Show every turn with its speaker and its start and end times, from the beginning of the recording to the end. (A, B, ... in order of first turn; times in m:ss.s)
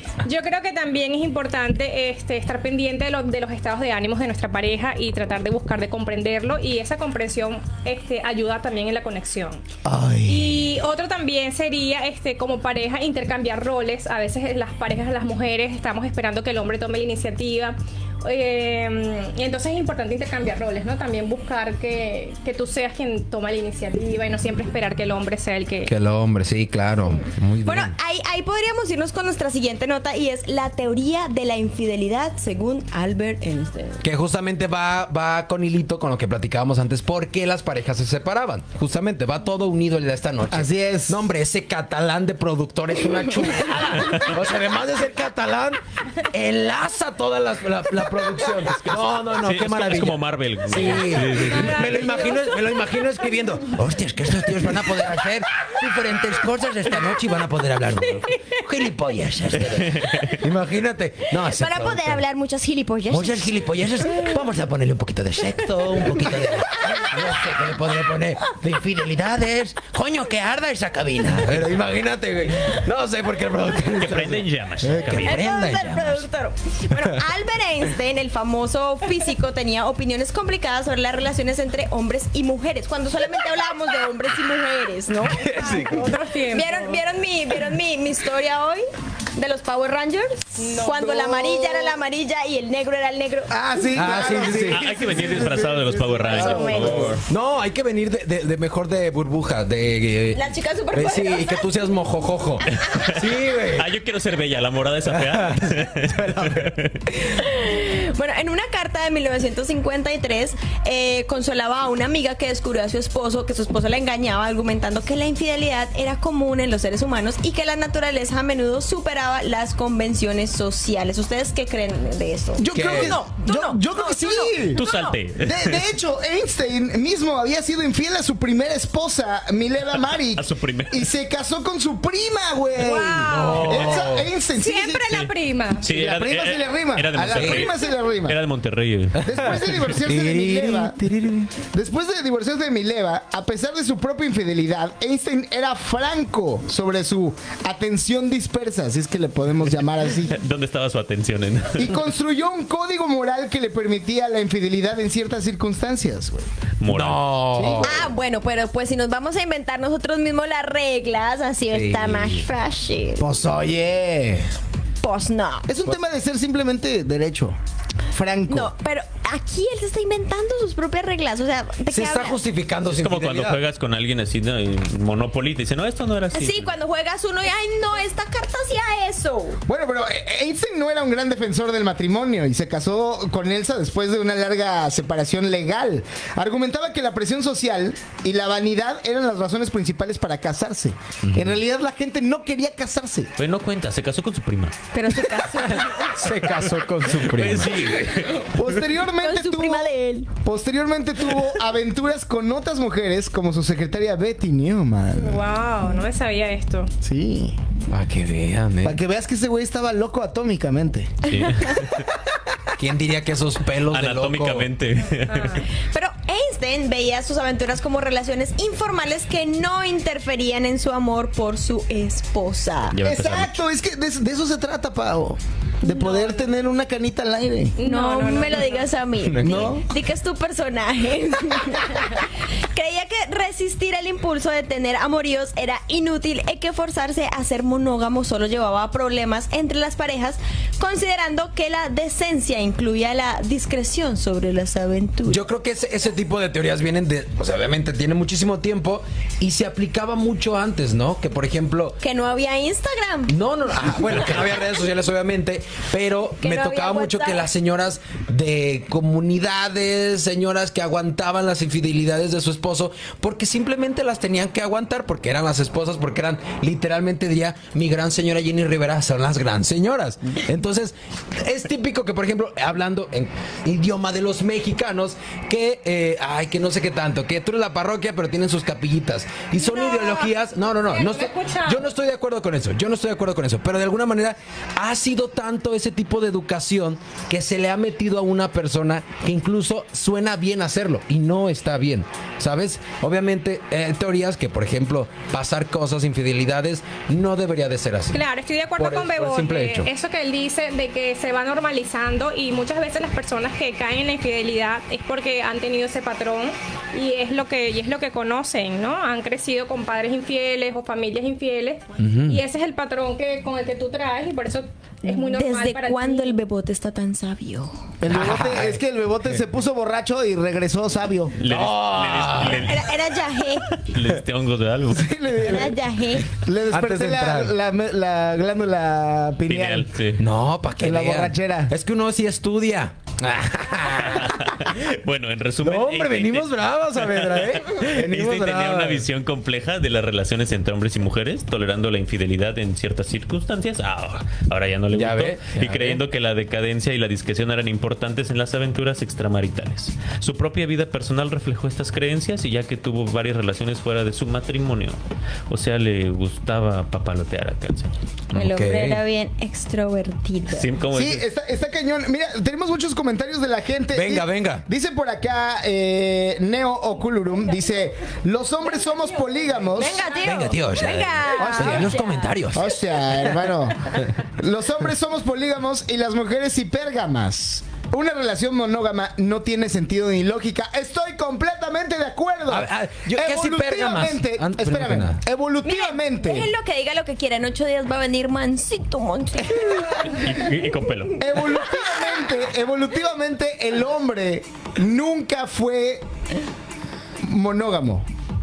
0:00.2-0:09.6 A
0:09.8-0:10.7 B
0:10.2-0:25.9 A
0:25.8-0:27.9 C
0:27.6-0:34.0 D
0:34.0-1:02.2 C
0:40.5-0:41.2 B
0:44.0-0:44.4 E
0:48.8-0:52.0 E
0:51.4-0:52.5 A
0:58.3-0:58.6 D
0:59.6-1:00.4 E
1:01.3-1:03.6 D
1:03.1-1:16.2 C
1:06.8-1:07.1 D
1:13.9-1:15.4 E
1:15.2-1:33.5 D
1:25.2-1:26.1 C
1:25.6-1:27.0 A
1:30.6-1:31.1 A
1:31.0-1:32.0 B
1:33.5-1:37.2 B
1:33.9-1:34.9 C
1:34.7-1:37.2 E
1:36.3-1:37.2 D
1:37.2-1:43.9 C
1:40.3-1:41.8 D
1:42.6-1:43.2 D
1:42.8-1:47.0 E
1:45.1-1:46.8 C
1:47.2-2:05.2 D
2:02.6-2:04.8 B
2:02.7-2:03.2 C
2:04.8-2:05.9 E
2:05.4-2:15.1 B
2:10.3-2:11.1 E
2:12.8-2:14.0 A
2:13.2-2:14.3 C
2:14.5-2:15.8 A
2:15.1-2:19.6 E
2:15.8-2:18.4 B
2:17.3-2:17.7 C
2:19.2-2:21.0 B
2:19.2-2:21.5 C
2:21.7-2:30.4 B
2:30.2-2:32.0 E
2:31.7-2:36.5 B
2:36.8-2:37.7 E
2:36.9-2:38.0 C
2:37.5-2:38.1 B
2:37.8-2:43.2 D
2:41.7-2:42.4 C
2:43.2-2:44.5 B
2:45.0-2:45.7 D
2:45.7-2:47.6 B
2:48.1-2:48.7 B
2:48.5-2:52.4 D
2:51.9-2:53.6 C
2:52.8-2:56.7 E
2:56.3-2:59.6 D
2:59.6-3:13.3 B
3:11.2-3:11.6 C
3:13.4-3:14.8 E
3:14.9-3:16.3 D
3:15.6-3:18.1 C
3:16.4-3:18.6 E
3:18.5-3:19.9 B
3:19.2-3:20.3 D
3:20.4-3:25.4 B
3:25.2-3:26.9 A
3:27.0-3:27.6 B
3:27.9-3:29.0 C
3:28.8-3:31.2 B
3:31.3-3:32.1 E
3:32.8-3:34.7 C
3:33.9-3:35.6 E
3:35.2-3:35.6 A
3:35.7-3:43.0 D
3:42.9-3:43.6 E
3:43.0-3:47.8 B
3:45.8-3:46.4 A
3:47.8-3:48.9 A
3:47.8-4:05.4 D
3:49.2-3:49.7 C
3:49.4-3:49.8 B
4:05.3-4:12.0 C
4:12.0-4:13.4 D
4:13.3-4:58.2 C
4:16.4-4:17.4 D
4:39.6-4:40.3 A
4:40.8-4:41.8 A
4:58.1-5:16.4 A
4:58.8-4:59.9 C
5:12.0-5:12.4 C
5:15.0-5:17.8 D
5:18.0-5:21.4 B
5:18.1-5:18.8 C
5:21.4-5:22.9 E
5:21.4-5:22.7 C
5:22.5-5:23.7 D
5:23.7-5:25.3 E
5:24.9-5:25.8 B
5:25.4-5:26.3 D
5:26.4-5:29.9 B
5:26.7-5:27.5 C
5:29.5-5:30.2 E
5:30.2-5:34.8 C
5:30.8-5:31.7 B
5:34.0-5:57.9 E
5:35.6-5:39.0 C
5:44.9-5:46.0 C
5:58.3-5:59.0 C
5:58.3-6:00.7 D
6:00.5-6:01.2 E
6:00.9-6:10.1 B
6:03.9-6:04.6 C
6:09.7-6:12.3 D
6:10.2-6:13.3 C
6:11.3-6:11.9 B
6:12.5-6:26.5 B
6:22.5-6:25.2 C
6:25.6-6:29.8 D
6:30.0-6:31.3 E
6:31.2-6:36.0 B
6:37.2-6:38.0 B